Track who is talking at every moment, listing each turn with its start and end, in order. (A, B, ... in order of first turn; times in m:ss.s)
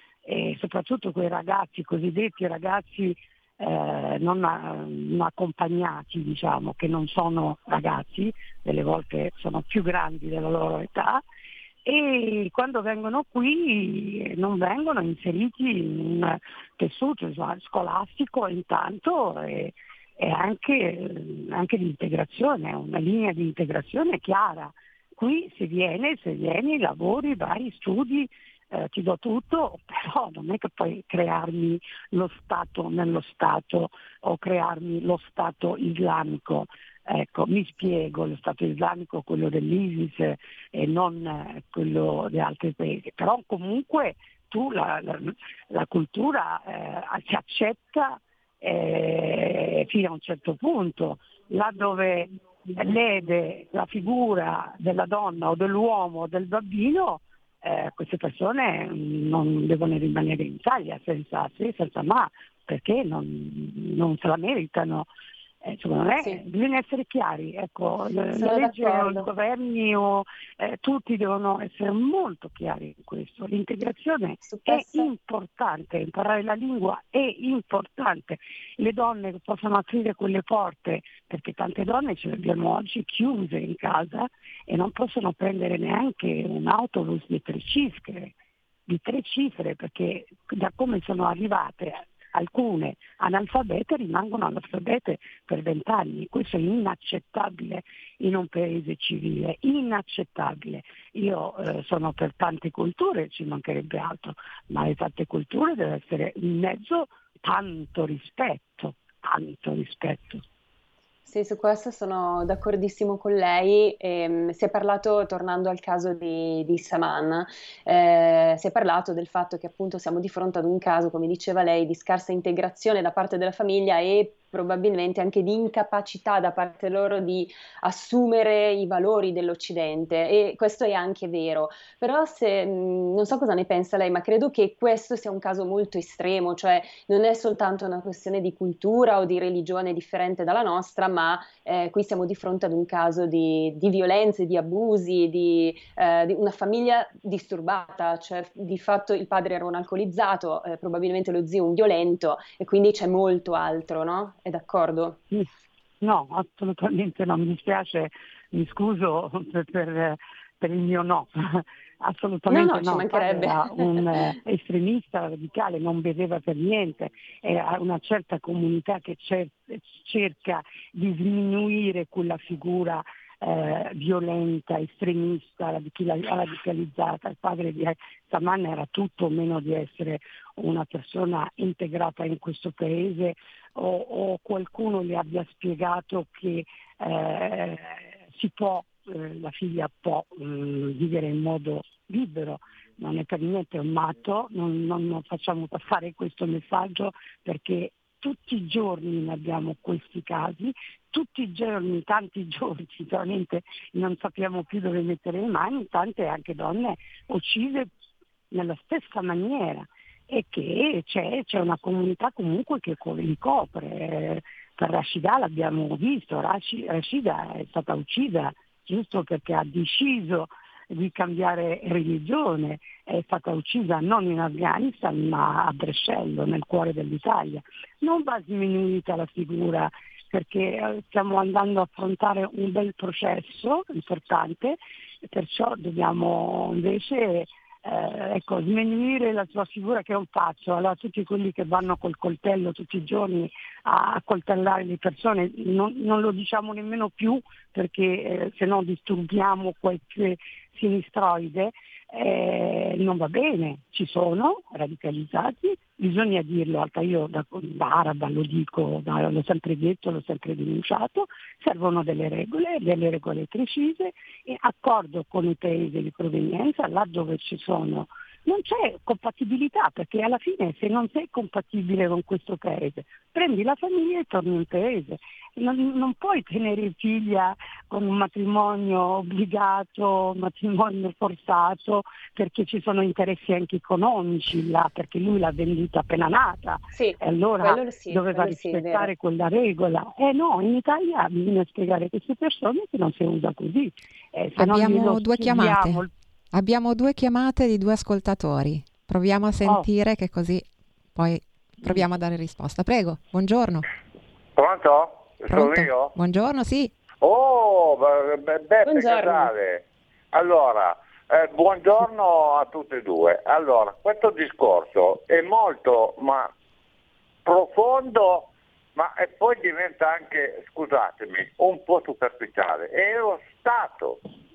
0:00.2-0:11.2 A
0:11.8-1:05.1 A
1:05.6-1:28.3 A
1:08.3-1:09.3 B
1:14.4-1:15.1 B
1:28.9-1:50.4 A
1:51.2-2:35.2 B
2:36.0-3:27.9 A
2:42.5-2:44.4 B
3:28.5-4:56.1 A
4:46.9-4:49.1 B
4:54.6-5:03.8 C
5:04.6-5:06.1 D
5:05.5-5:06.9 C
5:07.2-5:16.5 D
5:08.8-5:09.5 B
5:17.4-5:24.2 D